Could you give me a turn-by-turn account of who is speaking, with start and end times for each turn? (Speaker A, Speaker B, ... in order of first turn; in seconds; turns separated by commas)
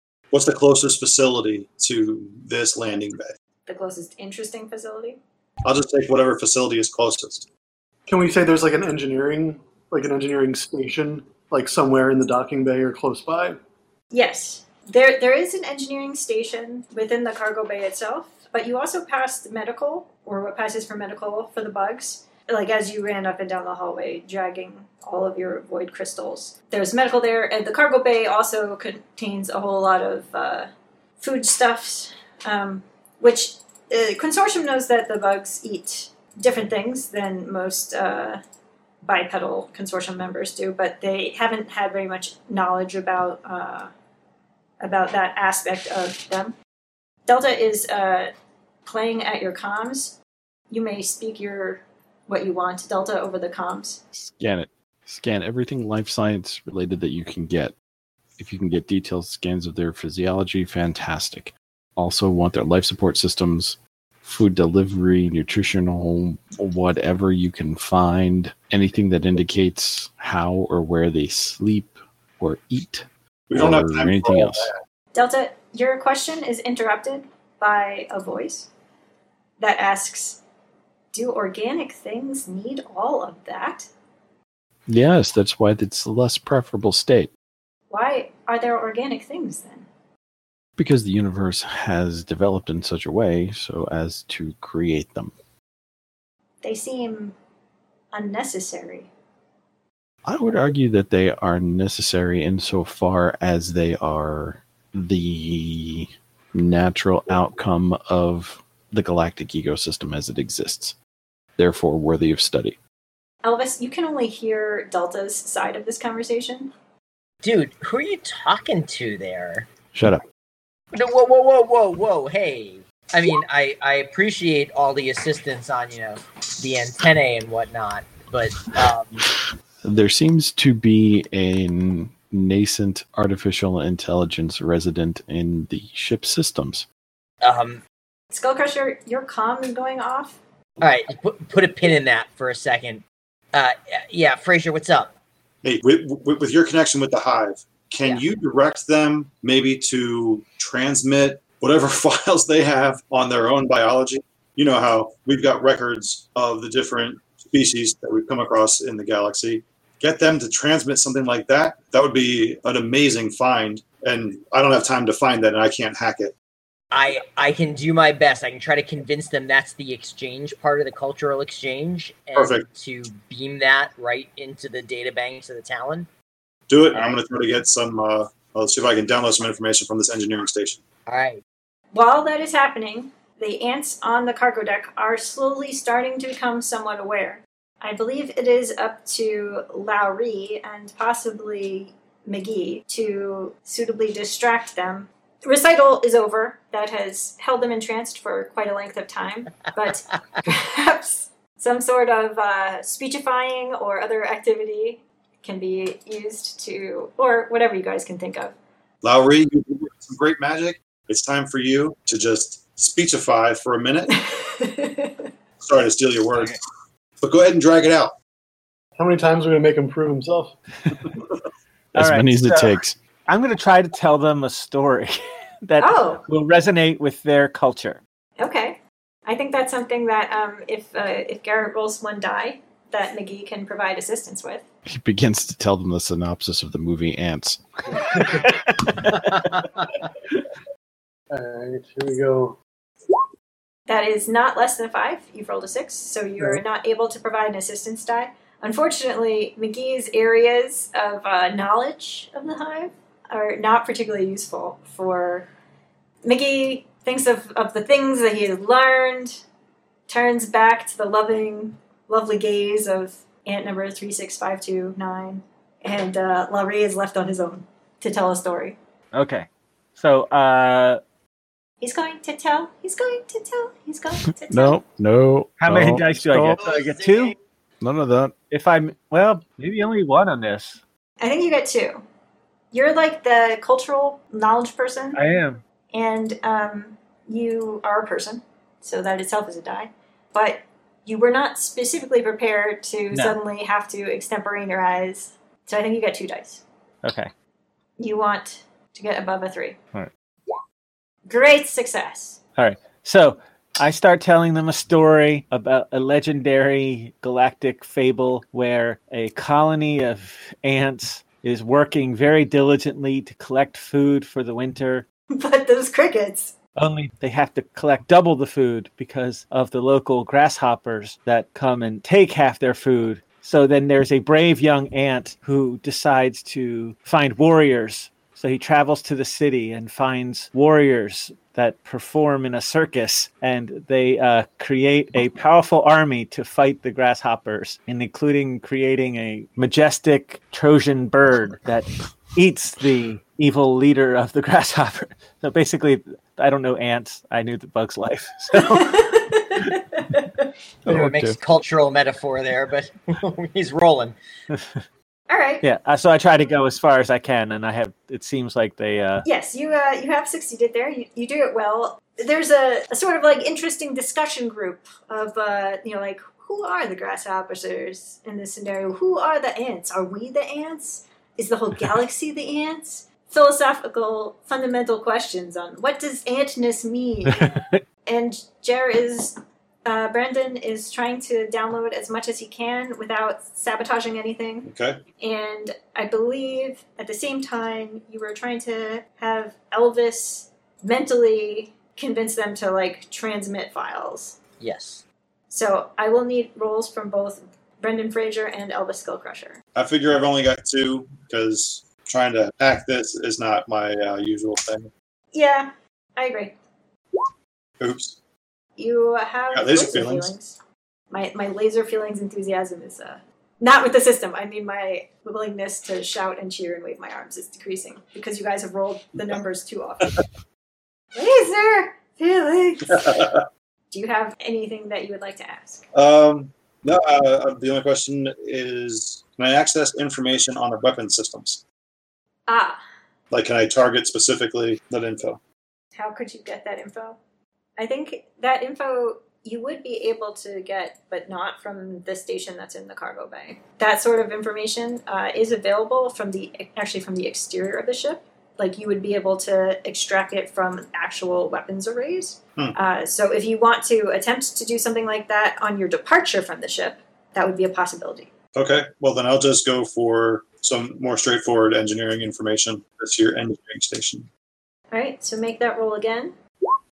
Speaker A: 0.3-3.3, Speaker B: 3.7-5.2, Speaker A: 5.7-7.5, Speaker C: 8.1-13.6, Speaker B: 14.1-38.4, Speaker B: 39.0-43.9, Speaker B: 44.8-46.5, Speaker B: 47.3-48.3, Speaker B: 48.9-50.2, Speaker B: 50.7-54.0, Speaker D: 54.1-57.8, Speaker D: 58.4-74.7, Speaker A: 73.5-74.8, Speaker B: 75.1-78.7, Speaker B: 79.6-80.4, Speaker B: 81.1-83.9, Speaker D: 84.9-87.3, Speaker B: 87.9-89.9, Speaker D: 90.8-95.3, Speaker B: 96.6-97.4, Speaker B: 98.1-99.1, Speaker D: 100.2-111.0, Speaker D: 111.6-112.8, Speaker B: 113.4-116.7, Speaker E: 117.4-119.7, Speaker D: 119.9-120.2, Speaker E: 120.9-129.3, Speaker D: 129.8-136.9, Speaker E: 137.4-137.8, Speaker B: 138.3-140.4, Speaker E: 140.8-145.1, Speaker A: 145.6-166.3, Speaker E: 166.9-176.1, Speaker A: 172.3-172.7, Speaker A: 176.7-180.8, Speaker E: 176.9-177.2, Speaker E: 181.1-181.4, Speaker B: 181.9-208.6, Speaker A: 209.0-214.1, Speaker B: 214.2-215.3, Speaker A: 215.6-216.6, Speaker A: 217.2-218.2, Speaker C: 219.0-220.5, Speaker D: 221.9-223.0, Speaker F: 222.0-228.0, Speaker B: 225.8-226.2, Speaker B: 228.4-234.6, Speaker D: 234.9-238.9, Speaker F: 238.4-238.9, Speaker C: 241.3-242.6, Speaker B: 243.9-255.5, Speaker B: 256.2-259.4, Speaker B: 260.1-268.8, Speaker F: 269.1-271.0, Speaker B: 271.8-274.8, Speaker D: 274.5-276.6, Speaker F: 275.6-277.4, Speaker E: 276.6-277.3, Speaker D: 277.8-278.4, Speaker F: 278.5-280.8, Speaker B: 281.2-282.0, Speaker B: 282.7-285.2, Speaker F: 285.1-285.6, Speaker B: 285.9-296.6, Speaker F: 293.1-293.4, Speaker F: 297.0-297.3, Speaker B: 298.0-299.8, Speaker B: 301.3-302.4, Speaker F: 302.6-315.1, Speaker B: 315.3-316.6, Speaker F: 316.8-349.2, Speaker B: 348.6-350.5, Speaker D: 350.9-351.4, Speaker E: 350.9-354.2, Speaker F: 354.5-354.8, Speaker B: 355.3-355.6, Speaker F: 355.6-359.3, Speaker B: 359.2-377.5, Speaker F: 377.3-377.8, Speaker B: 378.1-384.7, Speaker A: 384.6-385.0, Speaker B: 385.2-394.4, Speaker E: 394.6-395.0, Speaker B: 395.5-399.6, Speaker A: 399.8-404.9, Speaker B: 405.3-406.6, Speaker A: 407.8-408.2, Speaker B: 408.8-410.6, Speaker A: 409.5-410.3, Speaker B: 411.1-420.2, Speaker B: 421.1-423.2, Speaker A: 422.9-423.5, Speaker B: 423.9-425.9, Speaker A: 425.9-431.6, Speaker B: 432.5-432.8, Speaker A: 433.3-435.4, Speaker B: 435.9-437.2, Speaker B: 437.8-458.3, Speaker A: 458.6-464.3, Speaker B: 464.9-466.3